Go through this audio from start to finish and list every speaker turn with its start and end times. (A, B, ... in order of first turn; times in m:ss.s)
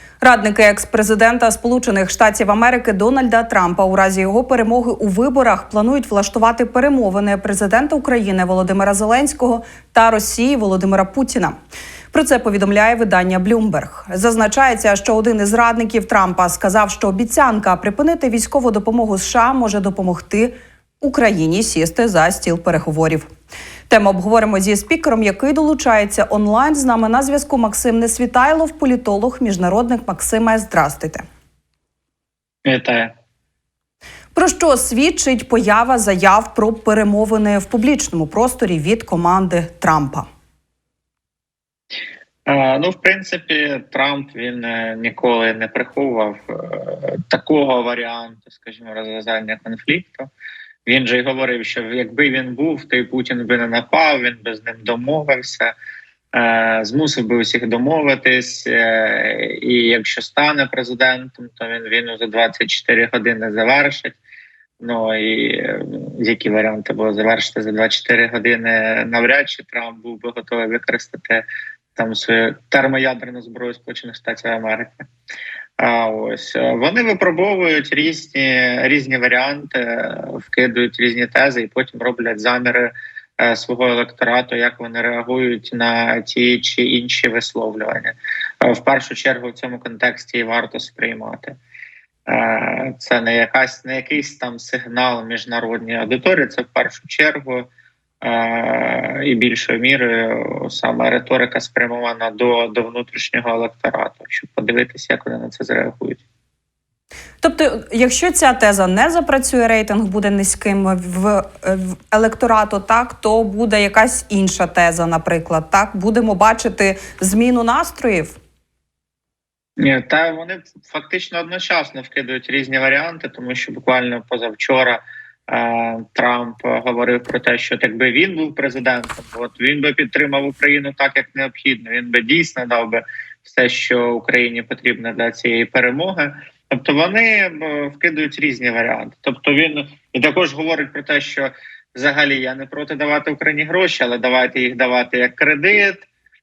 0:00.2-0:11.6 A
0:12.1-0:23.3 A
0:23.9-0:31.2 A
0:32.7-0:33.1 B
0:34.4-0:40.3 A
0:42.5-0:50.3 B
0:50.9-0:55.7 B
0:56.3-1:04.2 B
1:04.8-1:15.1 B
1:15.8-1:31.6 B
1:32.3-1:37.7 B
1:38.2-1:46.2 B
1:47.4-1:58.4 A
1:59.8-2:26.1 B